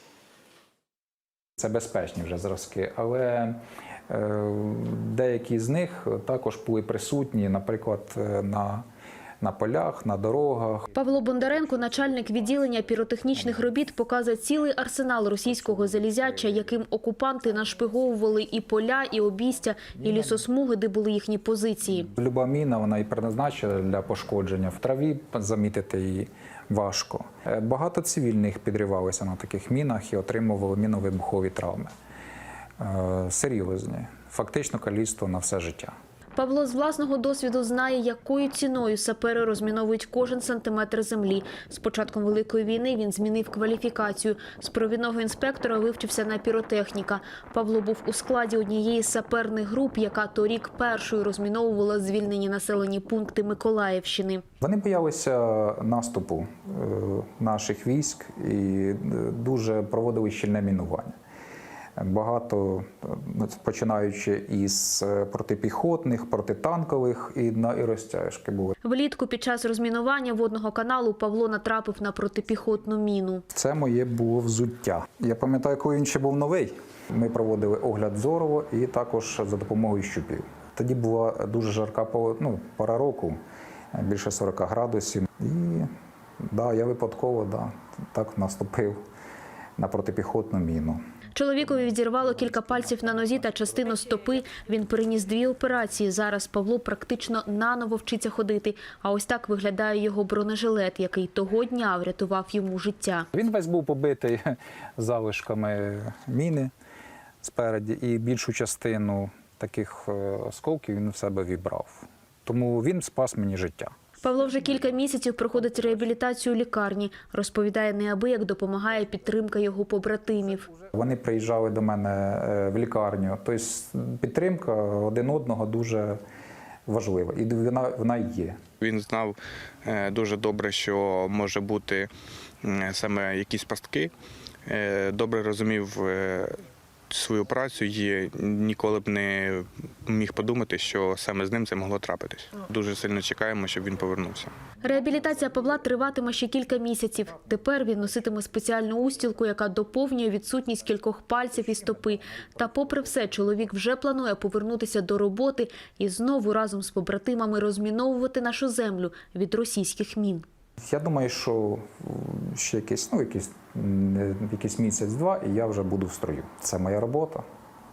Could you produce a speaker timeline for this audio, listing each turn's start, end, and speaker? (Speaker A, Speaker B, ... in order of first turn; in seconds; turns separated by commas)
Speaker A: 1.6-3.6, Speaker A: 4.1-8.8, Speaker A: 9.4-10.9, Speaker B: 10.9-22.1, Speaker A: 20.0-20.4, Speaker A: 21.9-31.9, Speaker A: 32.8-35.9, Speaker B: 36.4-54.4, Speaker A: 54.6-61.1, Speaker A: 62.0-68.7, Speaker B: 68.8-73.4, Speaker A: 73.5-83.4, Speaker A: 83.9-85.9, Speaker A: 86.4-89.0, Speaker A: 89.8-91.0, Speaker B: 91.3-103.3, Speaker A: 103.3-106.7, Speaker A: 107.4-113.9, Speaker B: 114.2-120.7, Speaker A: 120.9-126.2, Speaker A: 126.9-128.6, Speaker C: 128.8-132.1, Speaker C: 132.6-134.1, Speaker C: 134.7-144.5, Speaker B: 144.8-160.4, Speaker A: 160.8-167.4